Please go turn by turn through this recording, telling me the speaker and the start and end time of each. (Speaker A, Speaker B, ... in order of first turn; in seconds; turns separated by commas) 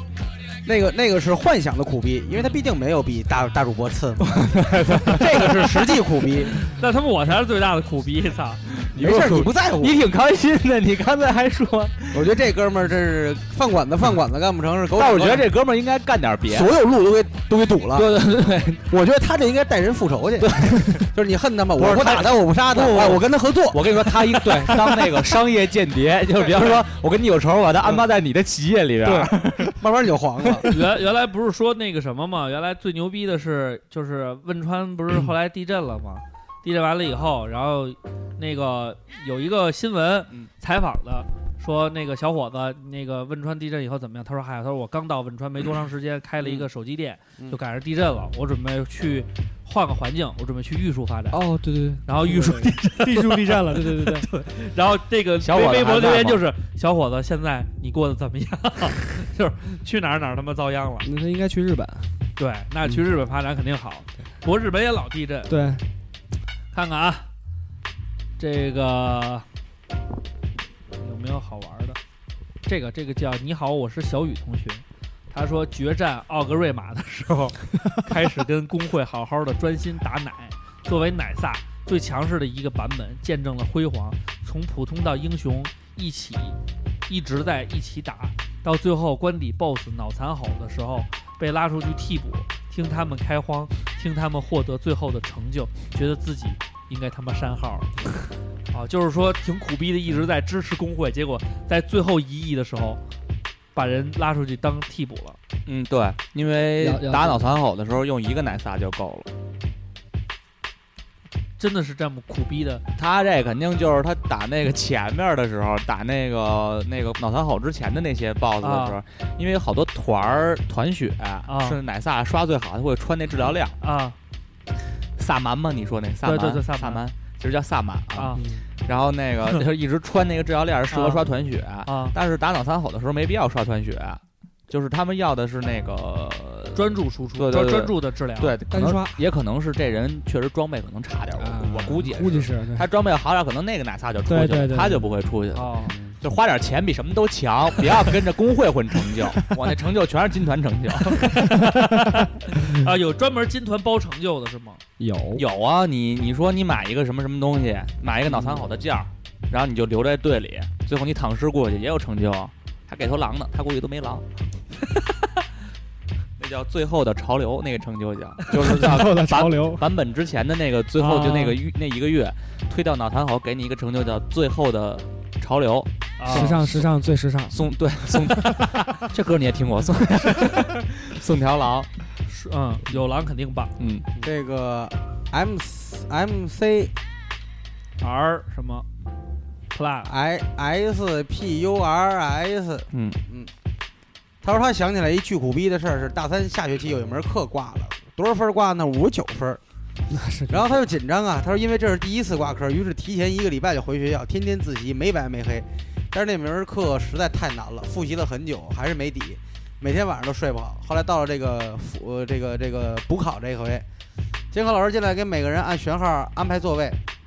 Speaker A: 0.7-6.5, Speaker B: 4.3-6.1, Speaker C: 6.6-8.6, Speaker B: 8.7-12.3, Speaker A: 8.9-10.0, Speaker A: 12.1-15.5, Speaker B: 15.0-16.7, Speaker A: 16.5-18.1, Speaker B: 17.9-18.9, Speaker A: 18.9-25.1, Speaker B: 20.4-21.1, Speaker B: 21.8-29.8, Speaker A: 26.4-26.8, Speaker A: 29.0-30.7, Speaker C: 30.6-51.4, Speaker D: 51.3-54.3, Speaker C: 52.1-61.1, Speaker B: 55.4-56.4, Speaker D: 61.0-62.1, Speaker C: 62.4-65.5, Speaker D: 65.5-65.8, Speaker C: 66.7-67.3, Speaker C: 68.4-69.5, Speaker C: 71.0-72.0, Speaker C: 72.7-86.6, Speaker C: 87.1-97.9, Speaker C: 98.7-103.0, Speaker C: 103.8-105.4, Speaker B: 105.7-109.3, Speaker D: 106.8-107.5, Speaker C: 111.6-112.8, Speaker B: 113.0-123.8, Speaker C: 118.6-119.0, Speaker C: 121.5-121.8, Speaker C: 123.8-124.2, Speaker B: 125.2-136.8, Speaker C: 126.2-127.0, Speaker C: 128.2-128.4, Speaker C: 130.9-131.3, Speaker C: 131.9-132.2, Speaker C: 136.8-138.5, Speaker B: 137.4-151.4, Speaker D: 138.7-139.2, Speaker D: 141.4-142.9, Speaker D: 144.3-145.1, Speaker C: 145.5-146.0, Speaker C: 151.2-154.8, Speaker D: 151.4-152.1, Speaker D: 155.0-155.4, Speaker B: 155.4-164.2, Speaker B: 166.4-176.9, Speaker D: 168.5-169.8, Speaker C: 171.0-171.6, Speaker C: 176.2-176.6, Speaker D: 176.3-178.7, Speaker B: 177.5-181.9, Speaker C: 182.3-183.7, Speaker B: 183.8-184.1, Speaker A: 184.2-186.9, Speaker C: 188.0-188.9, Speaker C: 189.7-190.1, Speaker A: 190.1-193.5, Speaker B: 192.9-193.2, Speaker A: 194.4-199.6, Speaker D: 200.1-200.8, Speaker A: 200.5-213.8, Speaker A: 214.5-217.0